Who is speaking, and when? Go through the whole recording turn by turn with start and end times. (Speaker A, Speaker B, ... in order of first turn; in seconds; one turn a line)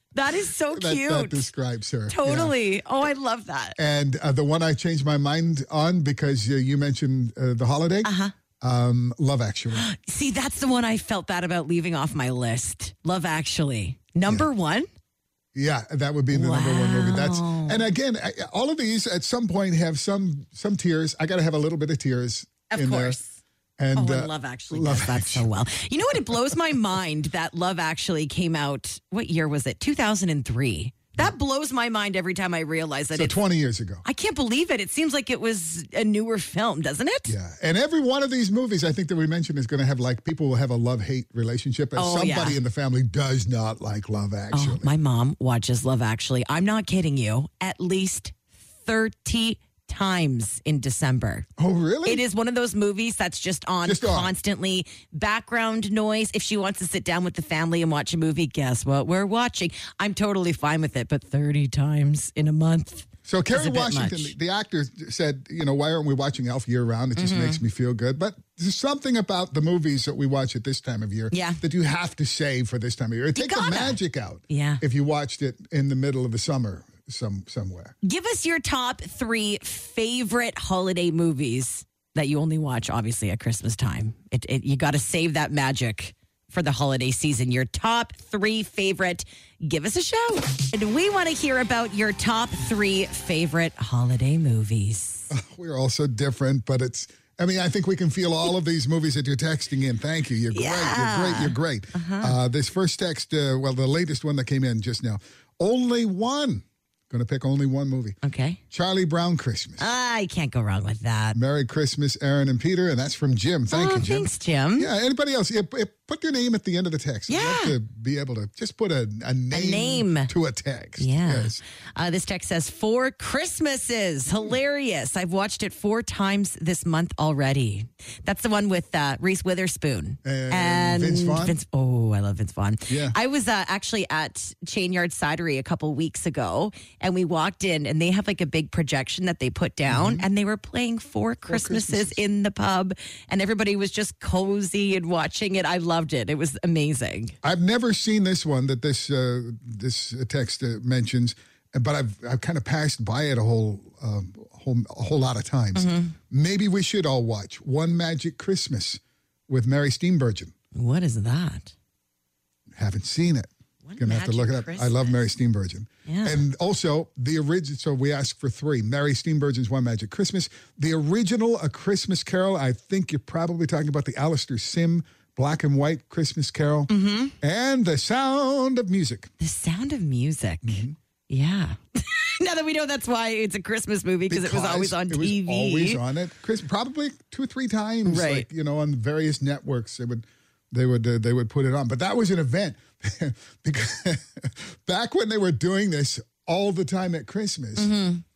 Speaker A: 0.1-1.5
Speaker B: 0.7-2.6
Speaker A: 2.1-3.8
Speaker B: 3.8-9.9
Speaker A: 8.0-8.3
Speaker A: 9.7-14.9
Speaker B: 15.6-23.2
Speaker A: 16.3-17.8
Speaker A: 22.7-23.4
Speaker B: 23.8-25.5
Speaker A: 23.9-33.4
Speaker B: 33.1-34.0
Speaker A: 34.0-37.4
Speaker B: 37.3-44.9
Speaker A: 42.0-42.6
Speaker A: 44.5-51.5
Speaker B: 51.6-52.2
Speaker A: 52.0-64.3
Speaker B: 53.9-54.3
Speaker B: 63.2-77.9
Speaker A: 67.2-67.6
Speaker A: 71.3-71.6
Speaker A: 73.3-74.8
Speaker A: 78.0-95.3
Speaker B: 95.3-108.2
Speaker A: 100.5-102.3
Speaker A: 108.2-108.6
Speaker B: 108.7-109.8
Speaker A: 109.8-111.4
Speaker B: 111.3-121.6
Speaker A: 113.7-114.9
Speaker A: 117.3-117.8
Speaker A: 119.5-120.3
Speaker A: 121.0-147.3
Speaker B: 130.2-131.6
Speaker B: 132.9-133.2
Speaker B: 139.9-140.3
Speaker B: 141.5-142.2
Speaker B: 147.4-160.5
Speaker A: 155.8-156.2
Speaker A: 160.8-161.7
Speaker B: 162.8-179.3
Speaker A: 163.8-165.2
Speaker A: 166.1-166.4
Speaker A: 176.9-177.3
Speaker A: 179.4-186.0
Speaker B: 180.6-181.0
Speaker B: 184.3-197.9
Speaker A: 188.1-188.5
Speaker A: 197.8-198.2